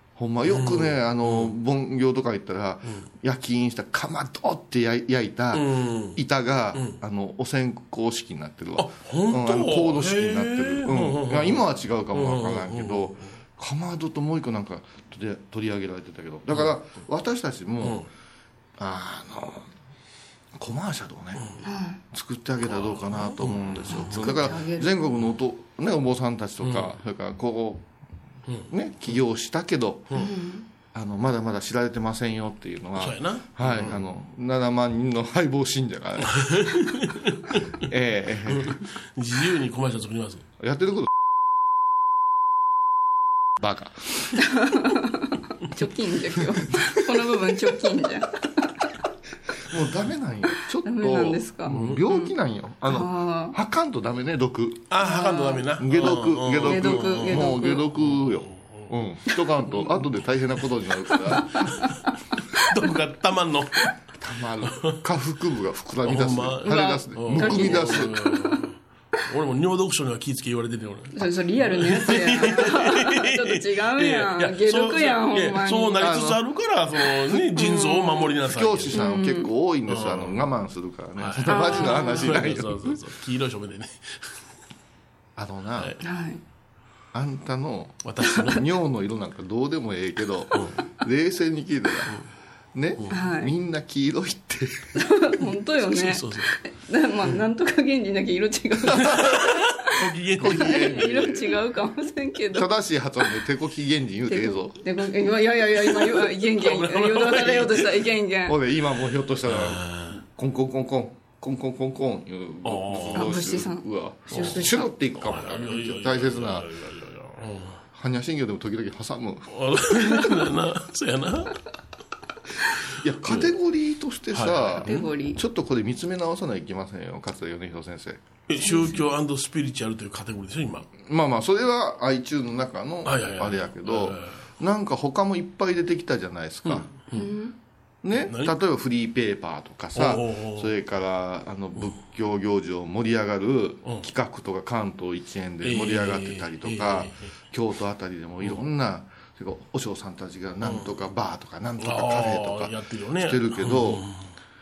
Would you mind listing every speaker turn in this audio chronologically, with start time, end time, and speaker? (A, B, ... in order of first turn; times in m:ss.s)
0:00.2-0:18.0 A
0:00.4-0:01.5 B
0:05.5-0:06.2 B
0:06.7-0:07.0 B
0:08.8-0:13.2 B
0:17.8-0:18.1 B
0:18.8-0:19.7 A
0:20.6-0:21.5 A
0:21.6-0:22.0 C
0:22.1-0:27.8 A
0:22.6-0:24.5 B
0:24.0-0:24.9 C
0:26.6-0:26.9 B
0:28.7-0:30.2 A
0:30.1-0:30.7 C
0:30.9-0:36.7 A
0:33.0-0:34.0 B
0:36.3-0:37.6 B
0:37.8-0:38.8 A
0:38.5-0:40.4 B
0:40.6-0:41.1 A
0:43.6-0:44.3 A
0:44.5-0:48.3 C
0:49.7-0:55.0 A
0:50.8-0:52.3 C
0:51.7-0:52.0 B
0:52.9-0:53.5 C
0:54.9-0:58.9 B
0:55.0-0:55.6 C
0:55.8-1:01.5 A
0:56.6-0:57.8 C
1:02.6-1:03.9 B
1:04.2-1:08.1 A
1:06.0-1:19.0 B
1:06.6-1:08.6 C
1:11.1-1:16.0 C
1:16.0-1:16.4 A
1:17.6-1:18.3 C
1:18.4-1:23.0 A
1:18.9-1:19.5 C
1:19.9-1:20.4 B
1:21.2-1:24.4 B
1:21.5-1:22.3 C
1:25.4-1:25.9 A
1:26.0-1:26.4 C
1:27.1-1:32.2 A
1:28.0-1:28.7 B
1:30.5-1:30.8 B
1:32.7-1:34.9 A
1:33.1-1:33.5 C
1:34.9-1:39.9 C
1:35.8-1:36.5 B
1:38.9-1:39.4 A
1:39.0-1:41.0 B
1:40.4-1:41.6 A
1:40.4-1:42.7 C
1:42.5-1:44.8 A
1:44.3-1:48.6 C
1:46.0-1:48.0 B
1:48.5-1:56.7 A
1:49.4-1:50.2 B
1:52.6-1:53.3 B
1:53.1-1:54.9 C
1:54.3-1:57.8 B
1:57.9-1:59.5 A
1:59.5-2:01.6 B
2:03.0-2:08.2 A
2:04.3-2:05.1 B
2:04.8-2:05.4 C
2:08.5-2:10.9 B
2:08.7-2:09.0 C
2:11.0-2:16.9 A
2:13.0-2:14.3 B
2:16.6-2:17.3 B
2:17.1-2:17.5 C
2:18.0-2:34.0 A
2:18.2-2:18.5 B
2:19.9-2:20.7 B
2:25.6-2:27.3 B
2:30.6-2:30.9 B
2:31.8-2:34.2 B